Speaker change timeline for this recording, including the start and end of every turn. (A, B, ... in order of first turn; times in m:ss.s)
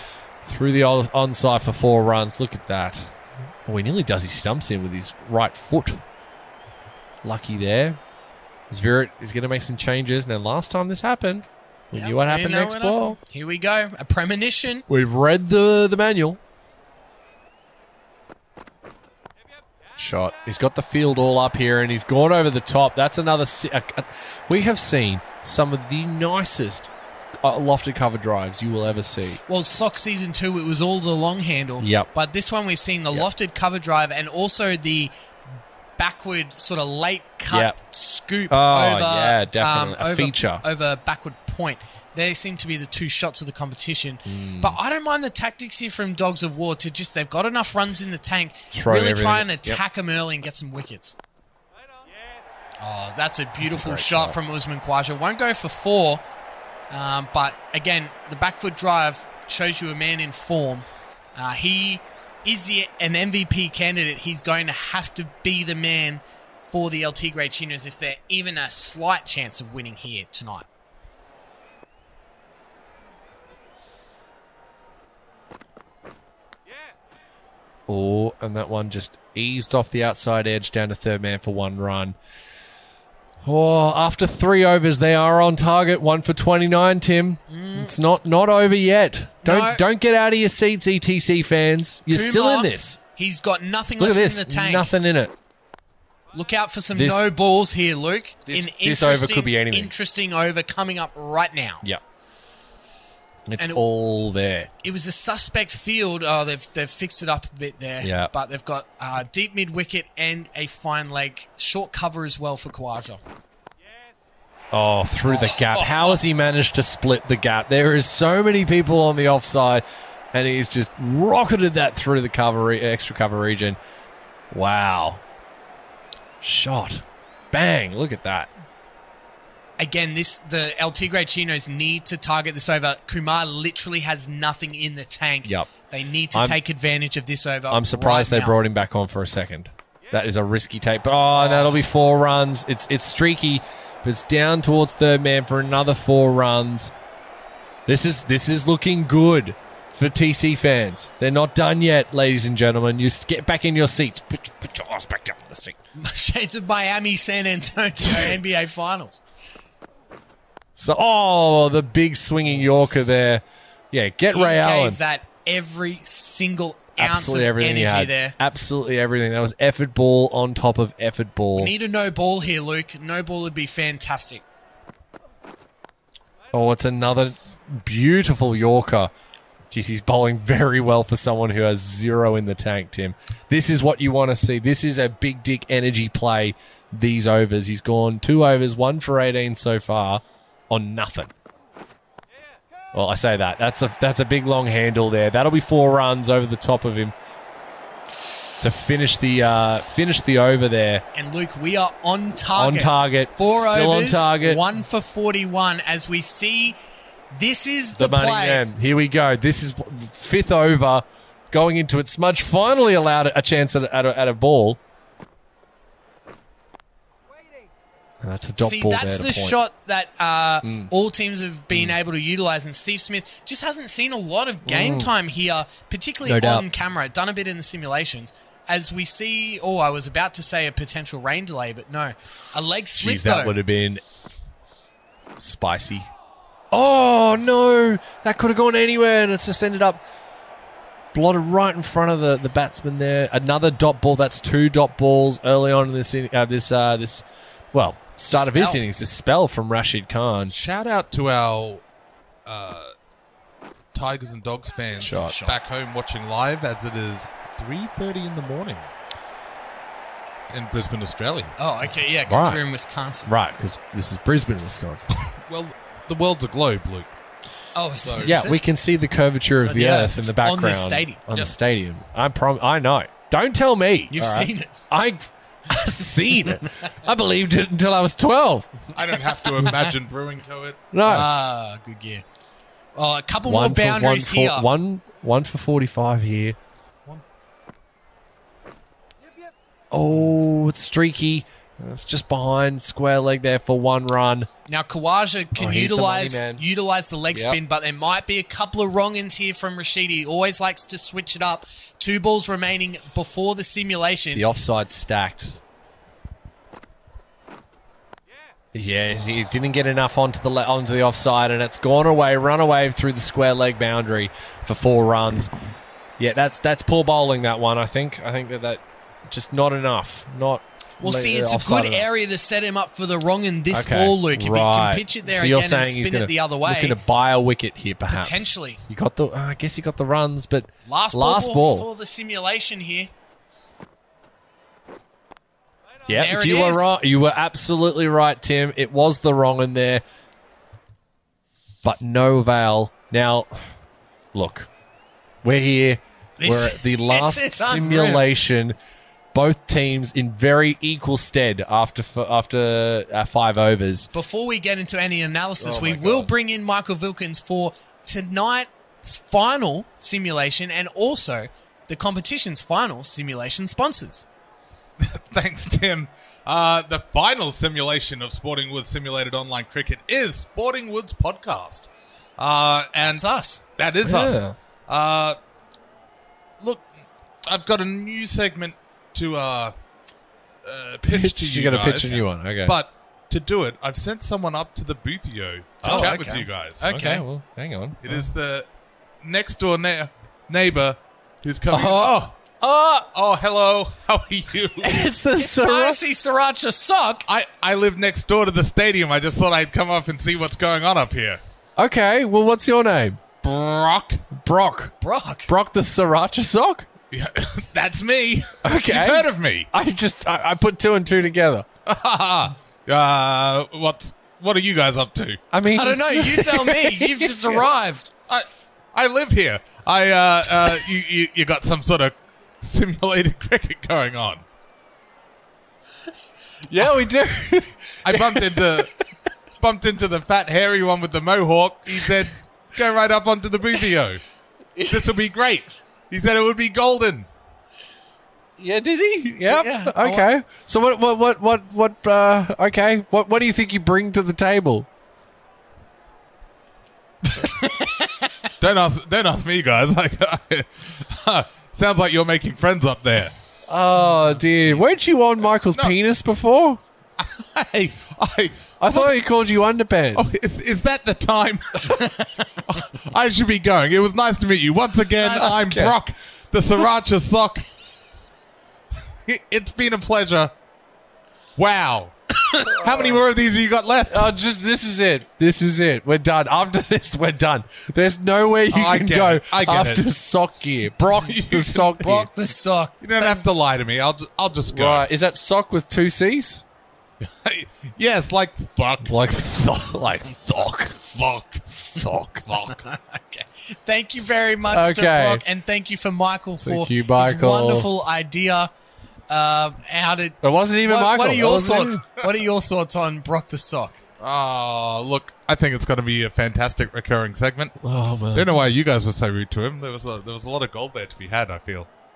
0:00.4-0:03.1 A
0:03.6-0:06.0 A
0:07.2-0:08.0 A
0:08.7-0:13.2 A
0:11.9-0:14.8 B
0:14.9-0:16.4 A
0:20.0-0:26.9 A
0:27.4-0:29.4 A
0:29.5-0:35.1 B
0:31.8-0:32.1 A
0:36.0-0:51.2 B
0:37.5-0:37.8 A
0:38.5-0:40.6 A
0:44.2-0:44.8 A
0:48.7-0:49.8 A
0:52.8-0:56.2 B
0:53.6-0:54.4 A
0:56.9-1:10.7 B
1:17.9-1:22.2 A
1:23.4-1:33.0 A
1:27.5-1:27.9 B
1:29.4-1:29.8 B
1:32.1-1:34.9 B
1:34.0-1:35.3 A
1:36.3-1:41.8 B
1:36.9-1:37.2 A
1:38.5-1:39.9 A
1:43.5-1:44.7 A
1:44.8-1:53.2 B
1:48.0-1:48.3 A
1:54.7-2:03.8 A
1:55.2-1:56.2 B
2:04.5-2:05.2 A
2:06.4-2:08.5 A
2:09.8-2:18.6 B
2:17.7-2:26.9 A
2:21.3-2:21.8 B
2:27.8-2:35.8 A
2:35.9-2:39.2 B
2:38.0-2:38.4 A
2:40.8-2:45.0 A
2:44.3-2:48.4 B
2:47.0-2:51.7 A
2:51.6-2:54.4 B
2:56.5-2:59.1 A
2:59.7-3:11.3 A
3:12.9-3:17.1 A
3:18.6-3:21.0 A
3:21.1-3:26.8 B
3:22.5-3:24.6 A
3:27.3-3:28.6 B
3:28.0-3:34.8 A
3:38.2-3:39.6 A
3:38.6-3:53.6 B
3:40.6-3:40.9 A
3:44.6-3:45.1 A
3:46.2-3:46.7 A
3:53.0-3:54.0 A
3:55.4-3:56.1 A
3:56.7-4:00.0 A
4:01.1-4:10.5 A
4:08.3-4:08.8 B
4:10.5-4:11.8 C
4:12.4-4:12.9 C
4:13.9-4:18.9 C
4:15.0-4:15.6 B
4:15.0-4:15.3 A
4:20.5-4:21.6 C
4:21.6-4:23.3 B
4:22.3-4:22.6 A
4:23.2-4:25.1 A
4:25.2-4:27.1 C
4:27.7-4:28.6 B
4:28.0-4:28.3 C
4:28.2-4:38.7 A
4:29.6-4:31.2 B
4:34.1-4:34.7 B
4:36.6-4:36.9 B
4:38.9-4:40.9 C
4:39.3-4:39.9 B
4:40.9-4:41.3 A
4:41.0-4:42.2 B
4:42.9-4:44.7 B
4:43.4-4:46.6 A
4:49.9-4:54.5 A
4:54.7-5:04.5 B
4:55.6-4:56.6 A
4:57.3-4:57.6 A
5:04.3-5:05.6 A
5:08.7-5:15.5 A
5:16.2-5:22.1 A
5:21.0-5:27.0 B
5:23.7-5:31.9 A
5:28.1-5:28.8 B
5:30.9-5:33.1 B
5:36.0-5:40.0 A
5:36.1-5:36.9 B
5:41.8-5:43.7 A
5:44.3-5:44.7 A
5:45.4-5:48.8 A
5:46.4-5:48.3 B
5:49.3-5:54.1 A
5:54.1-6:04.2 B
5:55.6-5:56.3 A
6:05.0-6:15.4 C
6:13.0-6:13.6 B
6:14.0-6:14.6 A
6:16.6-6:16.9 C
6:17.4-6:19.7 C
6:20.6-6:26.8 C
6:21.0-6:22.8 A
6:25.8-6:26.3 A
6:25.8-6:27.2 B
6:26.8-6:28.3 A
6:28.0-6:28.7 C
6:29.2-6:32.4 C
6:31.7-6:33.1 A
6:33.1-6:35.0 C
6:34.8-6:36.0 A
6:35.4-6:37.2 B
6:37.3-6:41.4 C
6:41.8-6:43.2 A
6:43.4-6:44.2 C
6:44.3-6:44.9 A
6:45.0-6:45.5 B
6:45.5-6:46.9 A
6:47.1-6:49.7 C
6:48.6-6:51.7 A
6:51.8-6:55.4 C
6:55.5-6:57.6 A
6:55.6-6:58.1 B
6:58.3-7:04.4 C
7:06.7-7:08.9 A
7:08.0-7:09.0 C
7:09.6-7:14.2 C
7:14.8-7:17.3 C
7:18.6-7:24.9 A
7:19.4-7:20.3 B
7:27.4-7:28.5 B
7:28.6-7:33.3 C
7:33.7-7:36.8 A
7:37.2-7:39.2 C
7:38.8-7:40.3 A
7:40.2-7:42.1 C
7:41.9-7:42.8 B
7:42.7-7:47.7 C
7:45.2-7:45.6 B
7:45.4-7:46.0 A
7:49.2-7:50.5 C
7:51.6-7:54.3 C
7:54.1-8:02.3 A
7:58.7-8:00.1 C
8:01.2-8:02.0 C
8:02.0-8:03.4 B
8:03.0-8:05.0 C
8:04.7-8:06.6 A
8:07.2-8:09.4 C
8:09.0-8:11.2 A
8:11.1-8:11.7 C
8:11.7-8:12.7 A
8:12.5-8:18.7 B
8:14.7-8:15.4 A
8:16.6-8:17.9 A
8:19.3-8:24.0 B
8:20.4-8:22.0 A
8:24.2-8:27.8 C
8:27.8-8:28.5 A
8:28.3-8:31.9 C